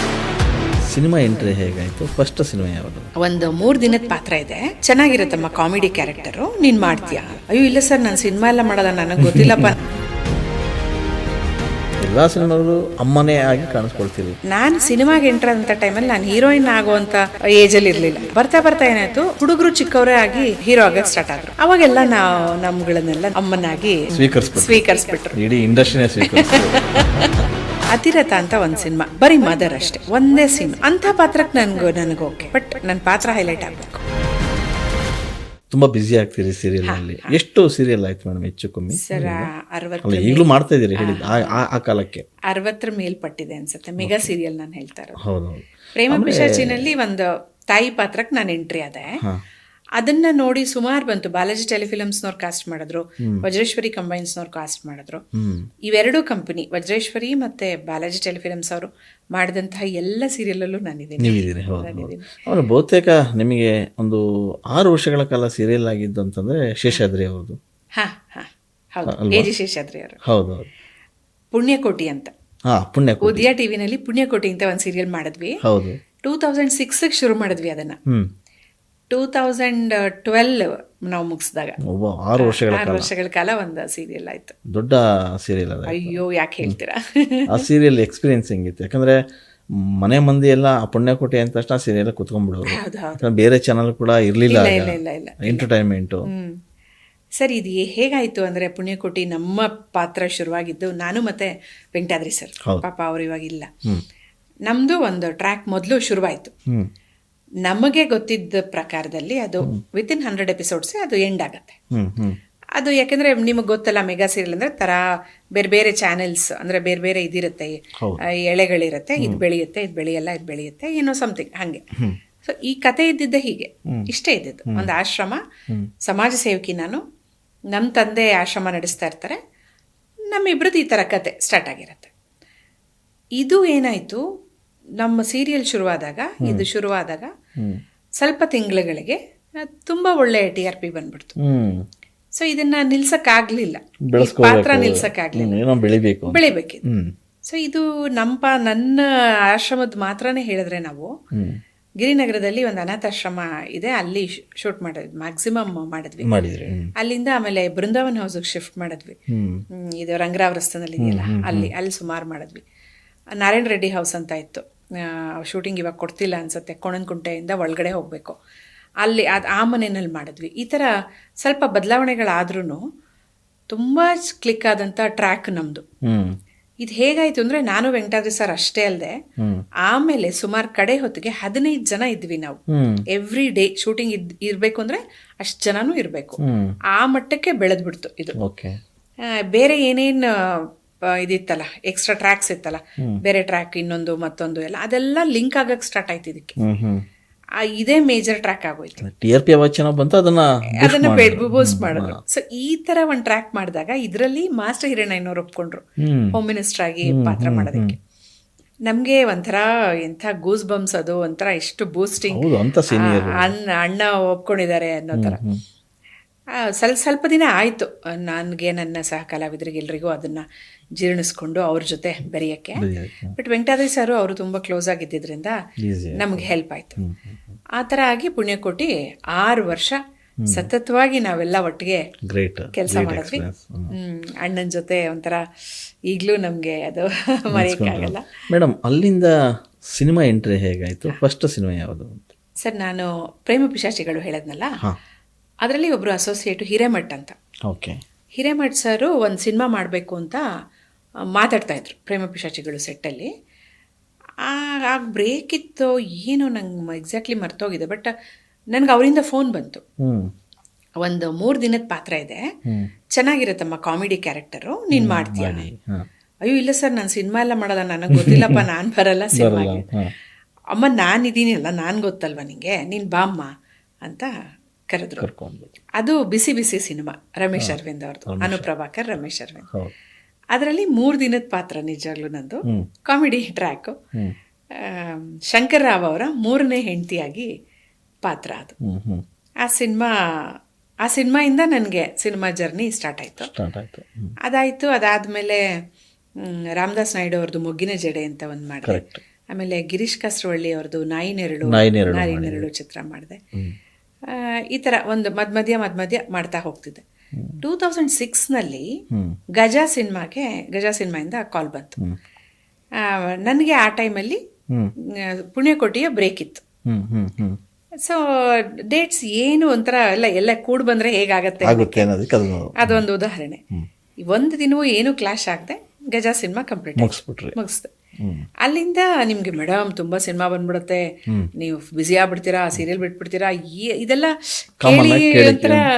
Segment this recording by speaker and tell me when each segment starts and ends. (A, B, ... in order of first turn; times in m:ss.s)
0:00.9-0:03.1 A
0:03.2-0:09.8 B
0:09.2-0:09.7 A
0:12.0-0:14.4 A
0:14.5-0:25.4 B
0:24.1-0:27.3 A
0:26.3-0:27.3 B
0:27.9-0:34.0 B
0:35.7-0:39.5 A
0:36.8-0:37.4 B
0:39.0-0:41.6 B
0:40.0-0:42.3 A
0:42.5-0:45.2 B
0:44.0-0:44.3 A
0:45.2-0:47.0 A
0:46.0-0:49.1 B
0:50.0-0:55.2 B
0:53.2-0:53.4 A
0:55.4-0:55.7 A
0:55.9-1:02.3 B
1:01.2-1:07.6 A
1:08.0-1:10.2 B
1:09.1-1:09.5 A
1:10.3-1:10.7 A
1:11.5-1:12.3 B
1:12.7-1:13.5 A
1:13.2-1:15.6 B
1:15.6-1:16.0 A
1:16.2-1:18.0 B
1:19.1-1:21.8 B
1:21.9-1:23.1 A
1:22.4-1:24.6 B
1:24.7-1:26.8 A
1:25.9-1:27.5 B
1:27.5-1:29.2 A
1:29.9-1:36.2 A
1:32.7-1:33.2 B
1:34.5-1:35.7 B
1:36.3-1:36.6 B
1:37.4-1:43.7 B
1:44.7-1:46.5 B
1:47.7-1:51.8 B
1:51.9-1:52.4 A
1:52.8-1:55.0 B
1:55.6-1:57.8 B
1:58.3-2:01.8 B
1:59.2-1:59.4 A
2:02.4-2:05.4 B
2:06.1-2:07.0 B
2:07.7-2:09.4 B
2:10.3-2:12.1 B
2:13.4-2:14.2 B
2:15.0-2:17.3 B
2:16.4-2:16.7 A
2:18.2-2:21.4 B
2:21.4-2:21.9 A
2:22.4-2:25.6 B
2:24.1-2:27.1 A
2:26.3-2:26.8 B
2:27.5-2:31.1 B
2:31.3-2:31.6 A
2:32.0-2:36.3 B
2:36.2-2:36.9 A
2:37.0-2:39.2 B
2:39.3-2:39.6 A
2:39.9-2:42.6 B
2:41.0-2:41.7 A
2:43.4-2:48.4 B
2:49.0-2:50.9 B
2:51.4-2:52.8 B
2:53.7-2:55.8 B
2:56.0-2:56.4 A
2:56.8-2:59.2 B
2:59.9-3:02.6 B
3:02.7-3:03.0 A
3:03.1-3:06.4 B
3:06.4-3:06.8 A
3:06.9-3:08.4 B
3:08.4-3:08.8 A
3:09.5-3:10.6 B
3:11.2-3:16.6 B
3:16.6-3:17.0 A
3:17.8-3:19.0 B
3:19.0-3:22.2 A
3:20.8-3:28.0 B
3:26.0-3:26.4 A
3:27.1-3:28.0 A
3:28.9-3:35.4 B
3:32.2-3:33.6 A
3:35.1-3:35.6 A
3:36.8-3:40.4 B
3:41.0-3:42.9 B
3:42.8-3:43.4 A
3:43.4-3:45.6 B
3:45.8-3:47.4 A
3:46.2-3:47.0 B
3:47.8-3:50.0 B
3:50.4-3:50.7 A
3:50.5-3:52.0 B
3:52.3-3:53.9 A
3:52.8-3:53.4 B
3:54.0-3:55.4 B
3:56.1-3:58.3 B
3:57.5-3:59.3 A
3:59.8-4:02.3 A
4:02.6-4:04.8 B
4:05.6-4:07.4 B
4:07.7-4:08.0 A
4:08.4-4:10.4 B
4:11.4-4:13.3 B
4:14.4-4:18.1 B
4:18.7-4:19.8 B
4:20.0-4:20.3 A
4:21.0-4:22.4 B
4:23.1-4:25.7 B
4:24.9-4:26.0 A
4:26.4-4:29.9 B
4:28.1-4:28.6 A
4:29.3-4:30.1 A
4:30.7-4:33.5 B
4:34.0-4:34.3 B
4:34.9-4:35.3 B
4:35.2-4:35.8 A
4:36.0-4:39.7 B
4:37.6-4:38.7 A
4:39.7-4:39.9 A
4:40.5-4:44.0 B
4:44.8-4:47.5 B
4:48.2-4:48.8 B
4:48.8-4:49.2 A
4:49.6-4:50.1 B
4:51.0-4:53.5 B
4:53.4-4:54.4 A
4:54.5-4:55.6 B
4:56.4-5:03.4 B
4:58.8-4:59.2 A
5:01.7-5:02.7 A
5:04.3-5:07.0 B
5:07.6-5:08.9 B
5:09.1-5:09.4 A
5:09.6-5:12.0 B
5:13.0-5:14.4 B
5:15.4-5:16.6 B
5:16.9-5:17.6 A
5:18.0-5:22.1 B
5:21.6-5:23.1 A
5:22.8-5:23.6 B
5:24.2-5:27.9 B
5:27.0-5:27.6 A
5:28.2-5:28.5 A
5:28.6-5:31.0 B
5:31.6-5:35.8 B
5:34.8-5:35.8 A